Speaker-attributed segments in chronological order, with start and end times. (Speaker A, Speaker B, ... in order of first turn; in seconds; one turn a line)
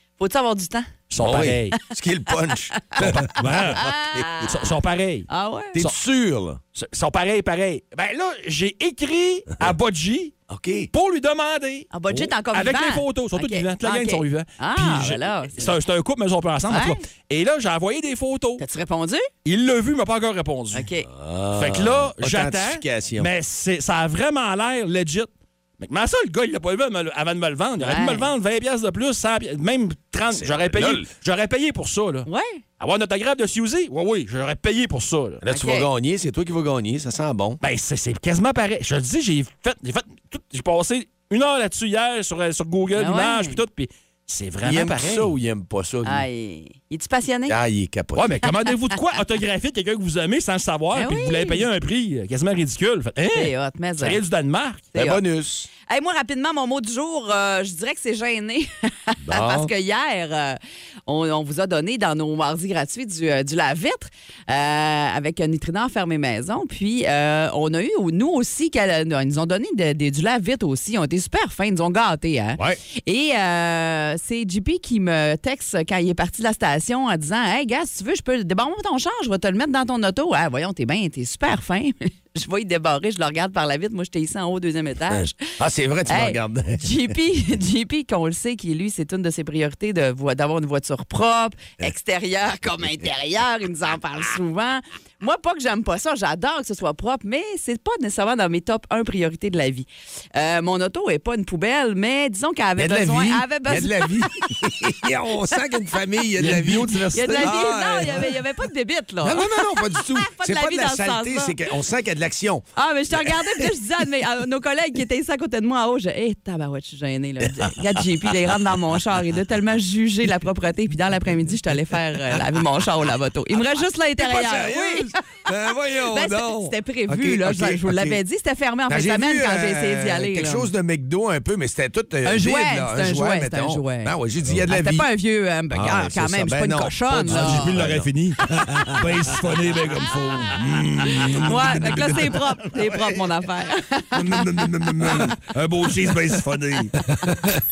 Speaker A: 0.2-0.9
Speaker B: 1.1-1.7
Speaker C: 1.2-4.4
Speaker B: 3.0-6.0
Speaker A: 3.6-4.5
Speaker A: 5.3-5.7
Speaker C: 5.7-6.6
Speaker B: 6.7-10.3
Speaker C: 10.5-10.9
Speaker B: 10.9-18.6
Speaker A: 11.9-15.7
Speaker A: 16.7-17.0
Speaker A: 18.6-19.3
Speaker B: 19.4-20.9
Speaker A: 20.7-21.1
Speaker C: 21.1-23.3
Speaker B: 21.6-32.3
Speaker A: 27.8-28.3
Speaker C: 30.3-31.1
Speaker A: 32.3-32.6
Speaker B: 32.8-35.4
Speaker C: 35.4-37.6
Speaker A: 35.5-35.9
Speaker B: 37.6-45.3
Speaker A: 43.0-43.6
Speaker C: 44.6-46.2
Speaker A: 46.0-47.5
Speaker C: 47.5-48.4
Speaker B: 48.1-54.9
Speaker A: 50.9-51.6
Speaker A: 53.3-54.2
Speaker A: 54.9-55.2
Speaker C: 54.9-55.7
Speaker A: 55.9-85.5
Speaker C: 59.2-59.7
Speaker C: 85.1-87.1
Speaker A: 86.1-104.5
Speaker C: 102.8-108.3
Speaker B: 106.4-107.6
Speaker A: 107.1-111.5
Speaker C: 109.2-112.7
Speaker A: 112.8-125.1
Speaker C: 113.2-113.7
Speaker C: 124.2-128.2
Speaker A: 126.1-130.7
Speaker C: 128.9-135.1
Speaker A: 132.2-134.1
Speaker A: 134.7-137.7
Speaker C: 135.7-139.4
Speaker B: 137.3-143.4
Speaker C: 141.1-142.0
Speaker A: 141.4-144.2
Speaker B: 144.1-146.9
Speaker C: 144.3-145.3